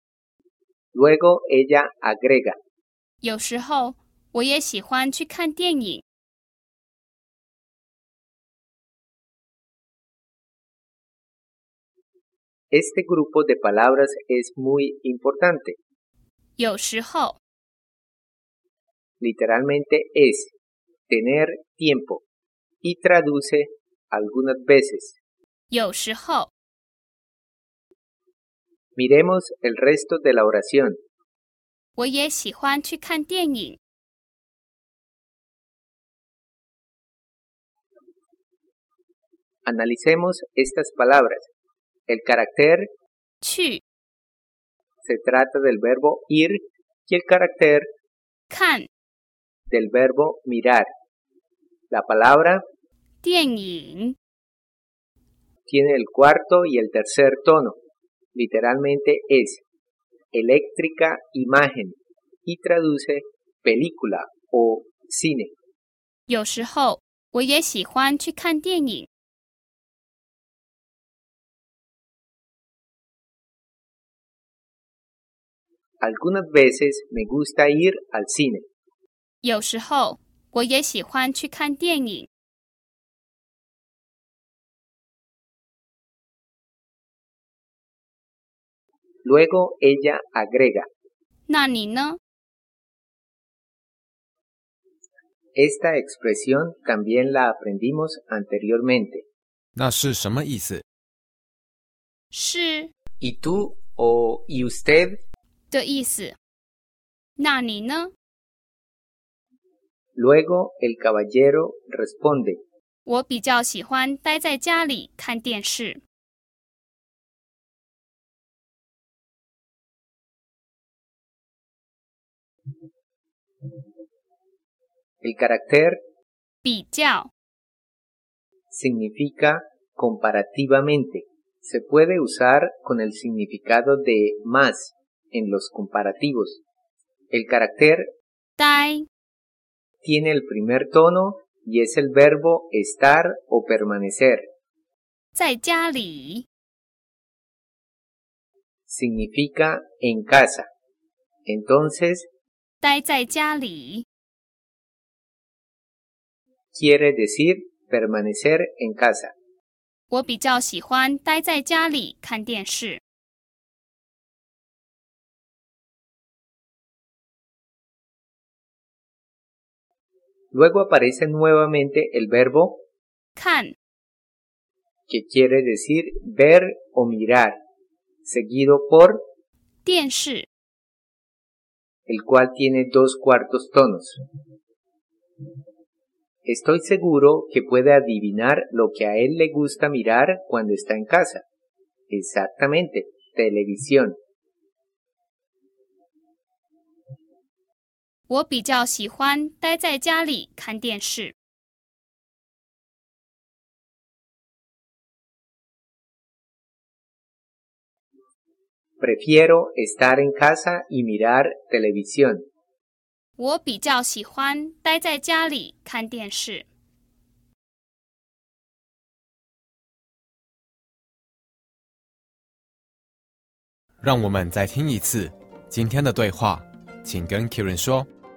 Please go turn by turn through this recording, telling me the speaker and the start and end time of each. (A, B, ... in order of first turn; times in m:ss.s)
0:00.9-0:02.6 A
0:03.2-0:06.0 B
0:12.7-0:15.8 A
0:16.6-0:17.4 B
0:19.2-0:20.5 A
0:21.1-0:22.2 A
0:22.8-0:25.2 A
0:25.7-0:26.5 B
0:29.0-0:31.0 A
0:32.0-0:33.8 B
0:39.7-0:41.5 A
0:42.1-0:42.9 A
0:43.4-0:43.8 B
0:45.0-0:47.9 A
0:48.5-0:48.9 B
0:49.7-0:50.9 A
0:51.9-0:52.6 A
0:53.2-0:54.2 B
0:55.7-0:57.8 A
0:58.4-0:59.6 A
1:00.3-1:05.5 A
1:06.3-1:09.1 B
1:16.0-1:18.6 A
1:19.4-1:22.3 B
1:29.2-1:30.9 A
1:31.5-1:32.2 B
1:35.6-1:39.2 A
1:39.8-1:40.8 C
1:42.3-1:42.9 B
1:43.2-1:45.2 A
1:45.7-1:46.4 B
1:47.4-1:48.1 B
1:50.2-1:52.6 A
1:53.1-1:56.0 B
2:05.2-2:06.0 A
2:06.6-2:07.3 B
2:08.7-2:16.6 A
2:17.3-2:18.1 A
2:18.6-2:19.1 B
2:20.0-2:24.4 A
2:25.3-2:26.5 B
2:28.9-2:30.7 A
2:31.5-2:32.3 A
2:32.8-2:34.0 B
2:36.7-2:39.3 A
2:40.1-2:43.0 B
2:50.5-2:52.8 A
2:53.4-2:53.8 B
2:55.1-2:57.6 A
2:58.3-2:59.2 A
2:59.8-3:00.5 B
3:02.1-3:04.2 A
3:06.4-3:11.4 A
3:12.1-3:14.2 A
3:18.3-3:21.4 B
3:29.0-3:32.4 A
3:33.4-3:36.7 B
3:44.0-3:48.1 C